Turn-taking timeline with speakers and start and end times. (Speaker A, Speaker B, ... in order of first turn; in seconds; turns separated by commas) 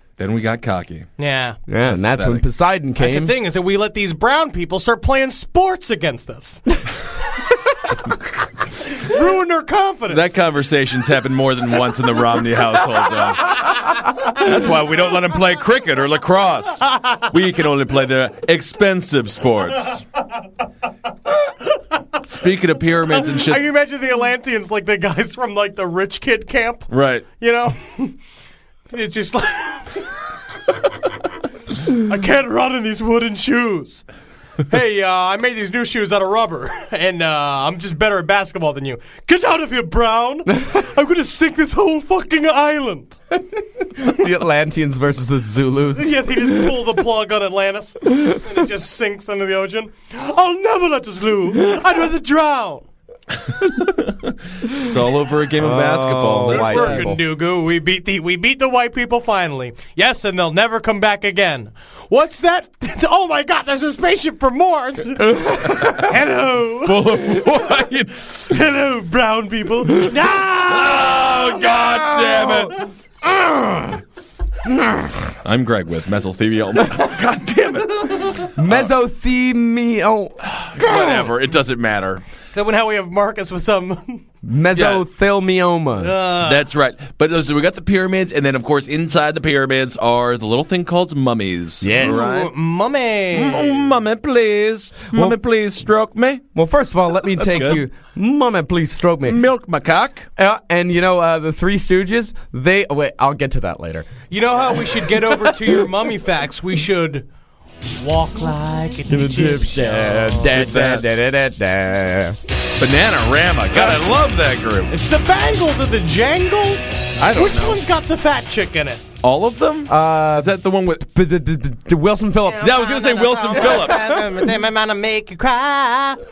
Speaker A: 0.2-1.1, Speaker B: 1.2-1.6, Speaker C: 1.7-3.3, Speaker A: 1.9-2.4, Speaker B: 3.0-6.6, Speaker B: 8.8-10.4, Speaker A: 10.1-20.0, Speaker B: 16.8-17.3, Speaker A: 22.2-23.6, Speaker B: 23.1-28.2, Speaker A: 26.9-27.2, Speaker B: 28.9-30.1, Speaker B: 31.9-34.0, Speaker B: 34.7-43.2, Speaker C: 44.0-46.8, Speaker B: 45.9-52.9, Speaker A: 53.5-57.1, Speaker C: 55.6-57.2, Speaker B: 56.5-67.2, Speaker C: 65.4-65.9, Speaker A: 66.8-68.6, Speaker B: 68.5-71.5, Speaker A: 70.5-72.8, Speaker C: 71.6-74.0, Speaker C: 74.7-75.3, Speaker A: 75.4-78.9, Speaker C: 78.5-80.4, Speaker A: 80.4-82.2, Speaker B: 82.5-84.2, Speaker C: 84.4-86.2, Speaker A: 84.8-85.0, Speaker B: 86.0-86.7, Speaker A: 86.4-92.5, Speaker C: 91.8-92.3, Speaker B: 92.0-93.9, Speaker A: 93.3-96.4, Speaker C: 96.5-99.4, Speaker A: 97.3-97.8, Speaker A: 99.2-100.3, Speaker C: 100.4-104.1, Speaker B: 104.3-107.3, Speaker B: 108.0-110.5, Speaker C: 109.1-112.4, Speaker A: 110.4-111.0, Speaker A: 112.8-114.9, Speaker B: 114.9-119.0, Speaker A: 117.2-117.8, Speaker A: 119.2-121.0, Speaker C: 119.9-122.8, Speaker B: 122.4-126.2, Speaker A: 122.6-124.2, Speaker C: 123.6-124.2